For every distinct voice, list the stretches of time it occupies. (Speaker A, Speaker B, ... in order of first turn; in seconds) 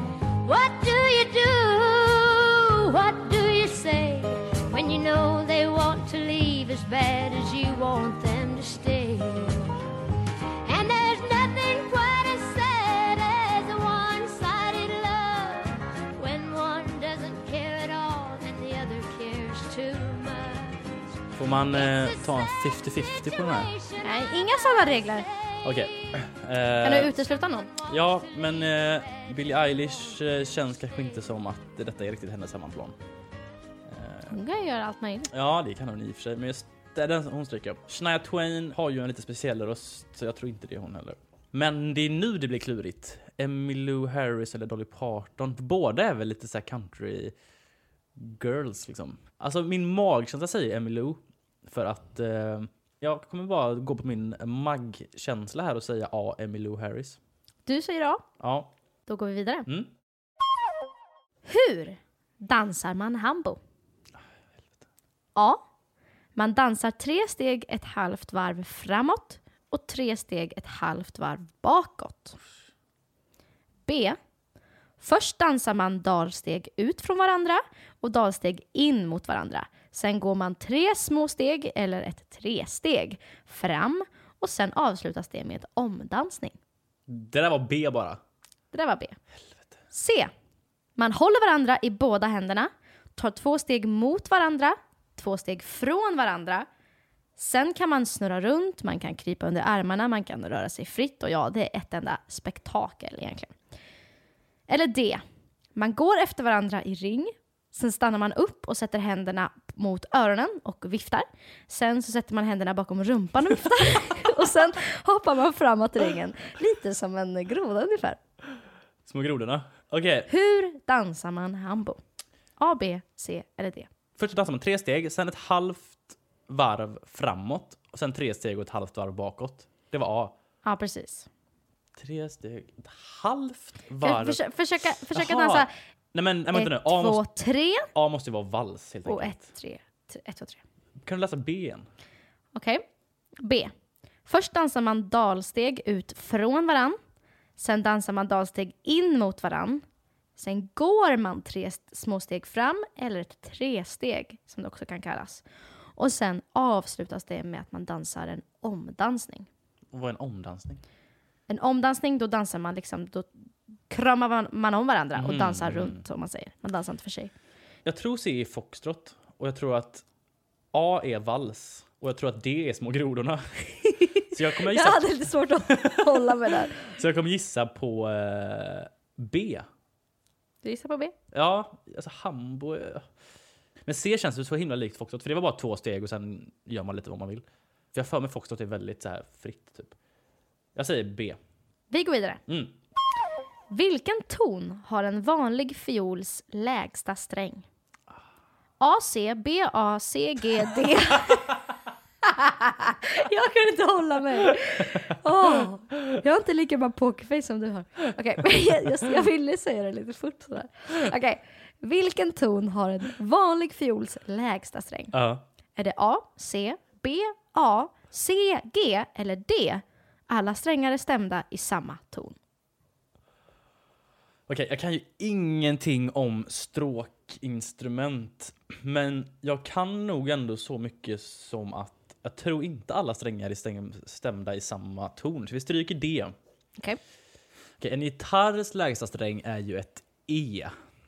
Speaker A: 0.4-9.7, 10.6-21.0, 21.7-25.9
Speaker B: 21.3-23.7, 25.6-27.2, 27.8-33.0, 33.9-34.4, 35.3-47.3, 48.2-57.2, 58.4-58.7, 87.1-88.2, 119.0-120.3, 124.2-130.3, 131.9-134.4, 135.1-137.2, 137.9-139.4, 141.0-141.9, 159.9-160.8, 165.2-166.0, 167.8-170.0, 170.7-175.1, 175.7-179.7, 181.3-183.1, 183.9-189.9, 190.7-191.4, 192.5-192.7, 215.1-215.4, 224.5-236.3, 237.8-240.7
Speaker C: 24.0-25.3, 26.8-27.7, 34.3-35.3, 57.6-58.2, 59.0-59.7, 61.5-63.6, 65.3-65.6, 66.3-72.4, 73.8-74.2, 75.0-86.5, 88.7-89.2, 89.9-90.3, 91.0-96.7, 97.4-103.5, 104.7-105.2, 105.8-118.2, 120.3-122.0, 122.6-123.9, 130.6-131.3, 134.0-135.7, 136.5-137.9, 139.1-140.6, 142.5-142.8, 143.4-143.7, 144.2-147.0, 147.6-149.8, 150.4-155.4, 155.9-159.5, 161.5-163.3, 163.9-167.3, 174.6-176.8, 180.6-181.1, 191.9-192.4, 193.7-197.7, 198.8-201.6, 202.2-215.1, 215.8-222.3